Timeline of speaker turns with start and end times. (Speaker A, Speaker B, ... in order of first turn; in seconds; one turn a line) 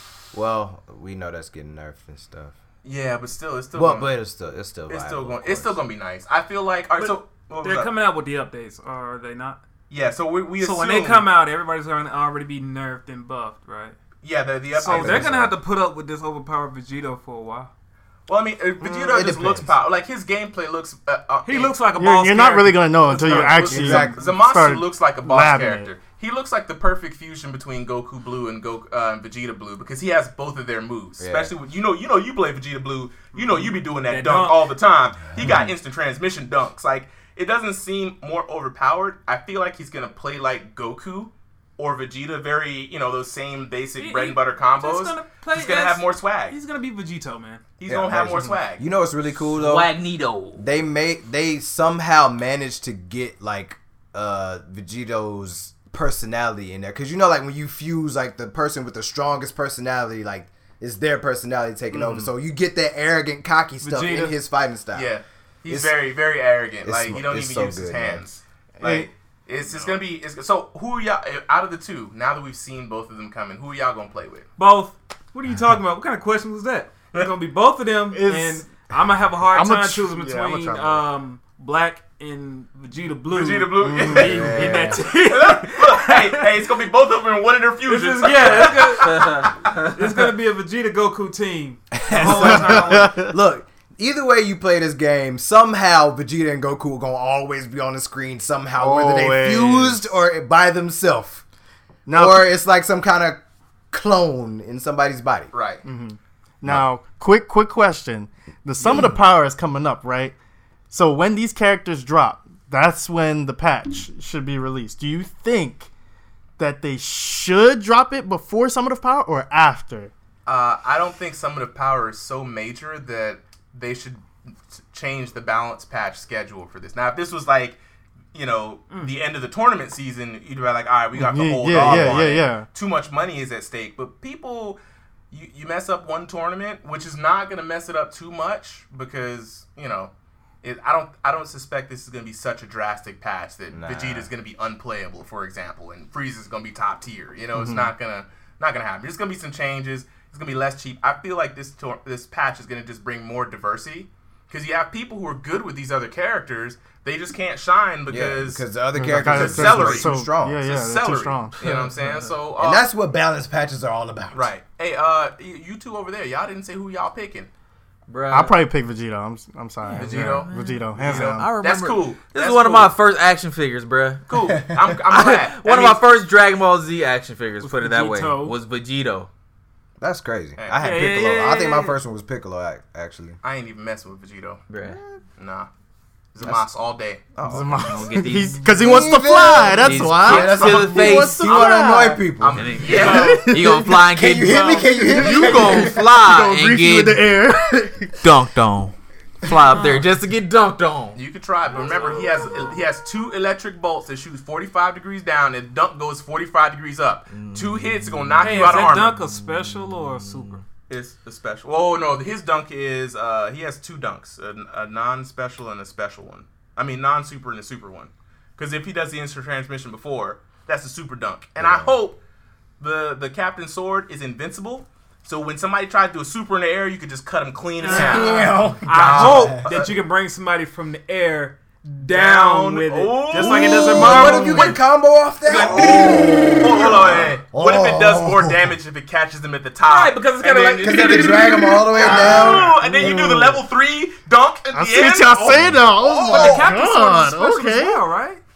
Speaker A: 0.3-2.5
Speaker B: 2.8-4.1
Speaker A: 3.7-5.8
Speaker B: 4.9-7.9
Speaker C: 7.0-9.6
Speaker B: 9.9-11.2
Speaker C: 10.6-14.0
Speaker B: 14.2-15.3
Speaker C: 14.8-17.7
Speaker A: 14.8-15.5
Speaker B: 18.3-21.7
Speaker A: 18.8-19.7
Speaker C: 21.4-24.2
Speaker D: 22.0-25.9
Speaker B: 23.2-46.6
Speaker A: 23.6-24.2
Speaker A: 31.2-31.5
Speaker C: 33.3-34.7
Speaker A: 35.4-35.7
Speaker C: 44.0-47.6
Speaker B: 47.8-48.8
Speaker A: 47.9-50.0
Speaker E: 49.4-50.6
Speaker A: 50.5-65.1
Speaker D: 61.9-62.2
Speaker C: 63.8-64.3
Speaker B: 64.9-74.5
Speaker A: 65.7-66.0
Speaker A: 66.8-68.2
Speaker A: 68.8-69.1
Speaker C: 74.6-86.4
Speaker D: 78.1-78.7
Speaker D: 79.5-81.0
Speaker B: 83.3-89.5
Speaker D: 83.8-84.4
Speaker A: 84.1-85.0
Speaker C: 87.8-93.2
Speaker E: 89.1-89.7
Speaker A: 91.9-101.4
Speaker D: 92.2-93.3
Speaker D: 98.8-100.0
Speaker D: 102.0-102.5
Speaker A: 102.1-103.4
Speaker A: 103.9-105.5
Speaker B: 105.5-105.8
Speaker D: 105.8-110.3
Speaker A: 108.8-109.2
Speaker D: 110.9-115.9
Speaker D: 116.6-120.1
Speaker B: 120.5-127.8
Speaker B: 128.3-134.8
Speaker D: 131.1-132.7
Speaker A: 131.8-132.2
Speaker B: 135.3-140.1
Speaker B: 140.6-162.8
Speaker A: 143.7-144.3
Speaker D: 147.6-147.9
Speaker A: 158.1-160.6
Speaker D: 158.9-161.6
Speaker E: 161.6-162.3
Speaker A: 162.6-164.5
Speaker B: 164.3-167.5
Speaker E: 168.1-168.6
Speaker D: 168.3-171.5
Speaker E: 169.8-174.2
Speaker B: 169.9-172.9
Speaker B: 174.3-176.0
Speaker E: 175.1-179.3
Speaker C: 177.6-178.6
Speaker A: 180.0-183.4
Speaker B: 180.6-180.8
Speaker C: 180.8-181.9
Speaker B: 183.4-184.6
Speaker E: 184.7-185.0
Speaker B: 185.4-185.7
Speaker B: 186.3-187.2
Speaker A: 187.3-188.0
Speaker D: 187.4-192.2
Speaker E: 187.8-188.8
Speaker A: 188.6-196.1
Speaker E: 189.3-191.8
Speaker B: 190.3-193.6
Speaker E: 192.5-197.3
Speaker C: 192.9-193.5
Speaker D: 193.1-194.0
Speaker D: 194.8-198.3
Speaker E: 198.2-201.2
Speaker C: 199.6-200.1
Speaker B: 201.1-209.2
Speaker C: 201.7-202.7
Speaker E: 207.3-210.6
Speaker C: 208.4-210.6
Speaker B: 210.9-222.2
Speaker A: 221.6-221.9
Speaker B: 222.8-229.9
Speaker C: 227.8-234.8
Speaker A: 227.9-229.7
Speaker B: 232.1-234.8
Speaker A: 233.3-238.7
Speaker B: 235.4-246.7
Speaker C: 235.5-236.1
Speaker C: 239.8-243.2
Speaker A: 240.8-242.8
Speaker D: 242.0-243.6
Speaker D: 244.7-248.0
Speaker A: 245.5-245.8
Speaker C: 246.2-248.4